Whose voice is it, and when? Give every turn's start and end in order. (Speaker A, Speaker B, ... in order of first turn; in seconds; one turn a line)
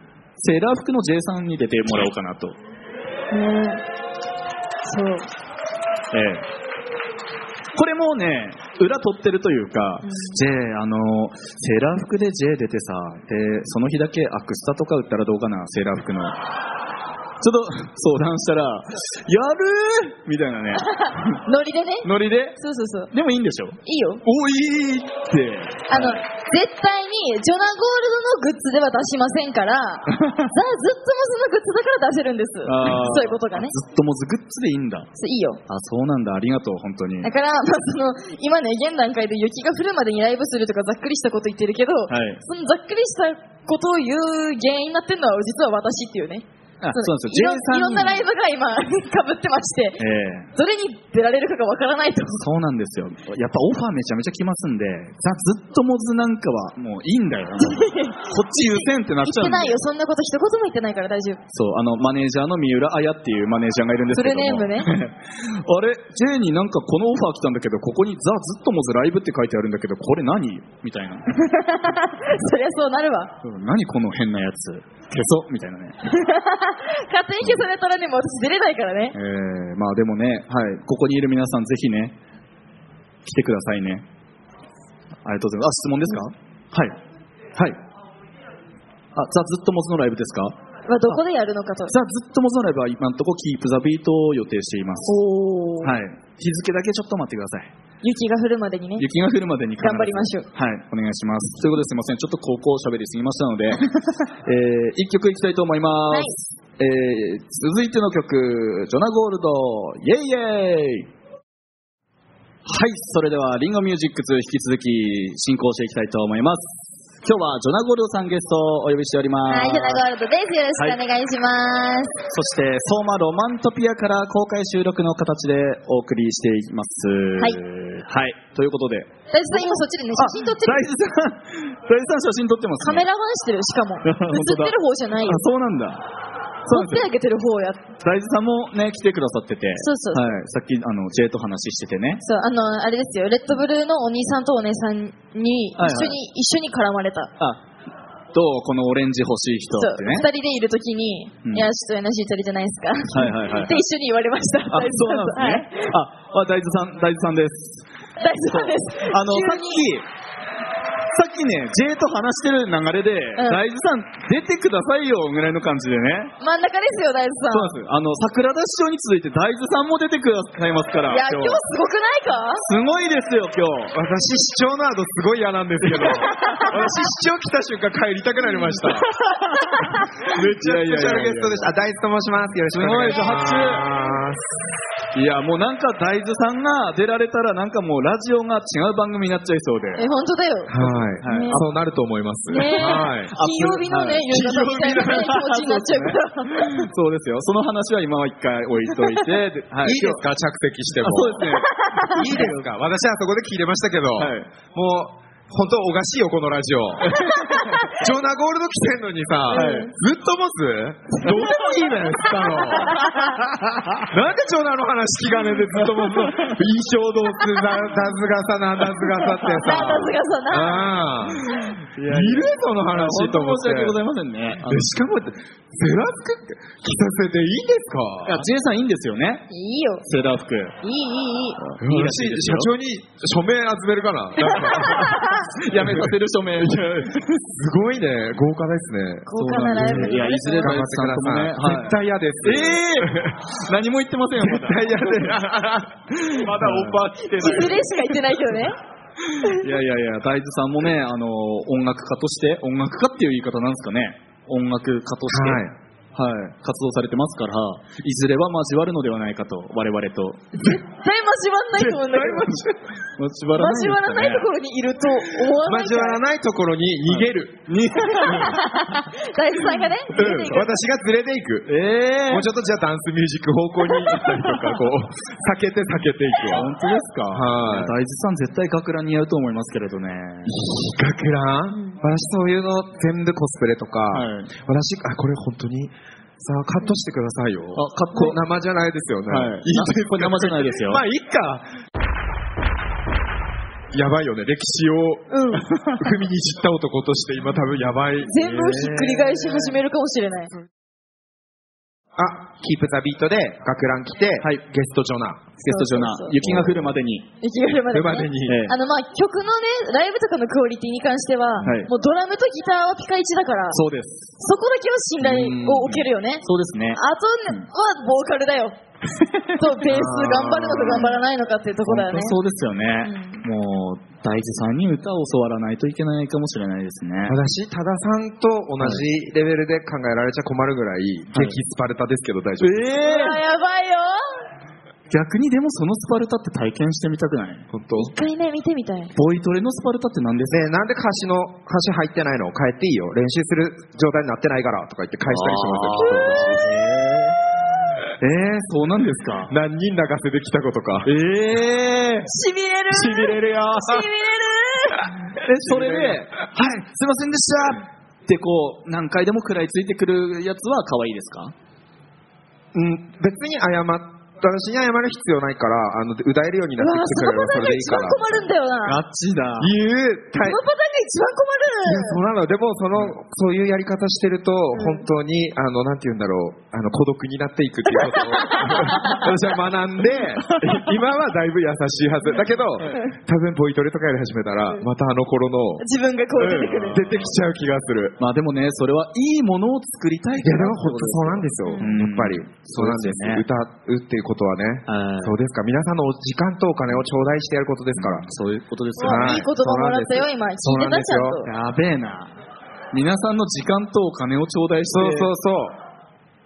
Speaker A: 0.4-2.6
Speaker B: 3.3-3.8
Speaker B: 4.8-5.3
Speaker A: 6.1-6.5
Speaker A: 7.7-16.4
Speaker B: 10.0-10.4
Speaker A: 17.4-21.4
Speaker B: 20.9-23.1
Speaker A: 22.0-22.6
Speaker A: 23.1-26.2
Speaker B: 23.8-24.2
Speaker B: 25.9-33.7
Speaker A: 30.2-30.5
Speaker A: 32.6-35.1
Speaker B: 35.1-35.6
Speaker A: 35.7-37.3
Speaker B: 37.2-50.0
Speaker A: 42.1-42.4
Speaker A: 46.8-48.2
Speaker A: 50.0-50.5
Speaker B: 50.5-52.4
Speaker A: 52.4-59.8
Speaker B: 57.6-61.4
Speaker A: 61.5-71.3
Speaker B: 64.1-64.9
Speaker B: 71.3-73.3
Speaker A: 73.4-76.0
Speaker B: 76.0-79.2
Speaker A: 77.4-77.7
Speaker A: 79.1-82.2
Speaker A: 83.2-84.0
Speaker A: 85.2-87.0
Speaker A: 87.5-87.8
Speaker A: 89.1-90.6
Speaker B: 90.9-91.9
Speaker A: 91.9-95.1
Speaker B: 95.0-95.9
Speaker A: 95.8-97.7
Speaker B: 98.0-99.1
Speaker A: 99.0-103.9
Speaker B: 99.8-100.5
Speaker A: 104.4-111.1
Speaker B: 106.1-106.4
Speaker A: 112.7-120.0
Speaker B: 119.5-122.2
Speaker A: 122.3-133.1
Speaker B: 129.3-130.8
Speaker B: 132.8-135.4
Speaker A: 134.0-136.1
Speaker A: 136.7-137.1
Speaker B: 136.7-137.8
Speaker A: 138.0-142.2
Speaker B: 139.8-140.2
Speaker B: 142.2-147.3
Speaker A: 145.8-146.2
Speaker A: 147.4-147.6
Speaker A: 148.3-150.3
Speaker B: 149.8-155.9
Speaker A: 153.1-153.8
Speaker A: 154.7-157.8
Speaker B: 158.2-159.8
Speaker A: 158.5-160.1
Speaker A: 161.1-166.3
Speaker B: 163.4-163.6
Speaker B: 166.4-167.8
Speaker A: 167.5-171.6
Speaker B: 171.1-172.7
Speaker A: 172.6-173.9
Speaker C: 173.9-179.1
Speaker A: 175.8-176.8
Speaker B: 176.0-176.7
Speaker A: 178.8-181.7
Speaker B: 179.6-180.1
Speaker C: 180.2-184.5
Speaker A: 182.7-183.9
Speaker A: 185.1-190.0
Speaker B: 189.9-191.6
Speaker C: 190.7-193.3
Speaker A: 190.8-191.7
Speaker B: 192.5-196.9
Speaker A: 192.6-200.2
Speaker C: 194.3-195.1
Speaker C: 199.8-201.6
Speaker A: 201.0-202.7
Speaker B: 201.6-202.4
Speaker C: 202.1-213.1
Speaker A: 204.2-204.5
Speaker A: 207.0-207.7
Speaker B: 207.2-207.9
Speaker A: 209.5-209.9
Speaker B: 209.5-209.9
Speaker B: 211.1-213.4
Speaker C: 213.9-224.0
Speaker A: 215.9-216.5
Speaker A: 219.3-220.0
Speaker B: 219.5-220.9
Speaker A: 221.5-224.9
Speaker C: 224.6-228.5
Speaker A: 228.2-229.4
Speaker B: 229.5-230.0
Speaker A: 230.0-230.8
Speaker B: 230.8-231.6
Speaker A: 231.6-232.7
Speaker C: 231.8-236.1
Speaker A: 234.4-237.4
Speaker B: 234.9-235.4
Speaker C: 237.5-243.4
Speaker B: 239.2-240.8
Speaker A: 239.3-245.5
Speaker C: 244.4-247.6
Speaker A: 246.2-248.6
Speaker B: 247.4-248.8
Speaker A: 249.2-260.6
Speaker C: 255.3-255.7
Speaker B: 260.6-262.6
Speaker A: 261.8-262.6
Speaker C: 262.0-262.8
Speaker A: 263.1-264.5
Speaker B: 263.5-266.2
Speaker C: 265.5-267.6
Speaker A: 267.1-268.8
Speaker B: 268.0-270.7
Speaker C: 268.2-268.5
Speaker A: 269.8-270.6
Speaker C: 270.1-271.7
Speaker A: 271.6-272.5
Speaker C: 272.3-276.7
Speaker A: 274.2-274.6
Speaker A: 276.5-280.6
Speaker C: 277.3-278.0
Speaker C: 280.5-291.6
Speaker B: 281.7-282.0
Speaker A: 284.1-284.5
Speaker A: 287.7-288.4
Speaker A: 289.3-291.0
Speaker C: 293.9-299.2
Speaker B: 295.3-295.7
Speaker B: 298.2-300.5
Speaker A: 298.4-299.4
Speaker C: 302.1-305.5
Speaker A: 305.6-307.3
Speaker B: 305.6-306.4
Speaker C: 306.4-306.9
Speaker B: 307.4-313.8
Speaker C: 307.9-308.7
Speaker A: 308.4-308.8
Speaker A: 311.6-311.9
Speaker A: 313.7-314.3
Speaker B: 314.4-318.8
Speaker A: 315.2-317.7
Speaker A: 319.1-319.7
Speaker B: 319.6-322.4
Speaker C: 319.9-321.2
Speaker A: 320.7-321.2
Speaker A: 321.8-327.4
Speaker B: 323.0-323.4
Speaker C: 327.2-332.9
Speaker A: 328.8-329.0
Speaker A: 331.3-331.6
Speaker A: 332.6-333.4
Speaker B: 332.9-334.4
Speaker A: 335.1-337.7
Speaker C: 337.7-338.1
Speaker B: 337.9-339.1
Speaker A: 339.1-340.6
Speaker C: 340.5-347.2
Speaker A: 345.3-347.1
Speaker B: 346.0-346.6
Speaker A: 348.2-349.5
Speaker C: 349.5-351.1
Speaker A: 351.0-352.3
Speaker B: 352.2-355.1
Speaker A: 352.9-354.1
Speaker A: 355.3-361.5
Speaker C: 355.6-356.2
Speaker C: 362.7-368.4
Speaker B: 366.8-369.0
Speaker A: 368.8-369.7
Speaker C: 369.6-370.6
Speaker B: 370.4-372.2
Speaker C: 371.8-385.8
Speaker B: 374.7-375.1
Speaker B: 377.9-379.3
Speaker A: 378.7-379.1
Speaker B: 385.8-387.1
Speaker A: 386.4-387.3
Speaker C: 386.4-388.2
Speaker A: 388.2-393.4
Speaker C: 390.4-398.3
Speaker B: 391.6-391.9
Speaker A: 394.9-395.4
Speaker A: 397.9-399.5
Speaker B: 399.0-401.5
Speaker C: 399.0-401.4
Speaker A: 401.4-402.3
Speaker A: 402.9-405.3
Speaker C: 404.9-405.8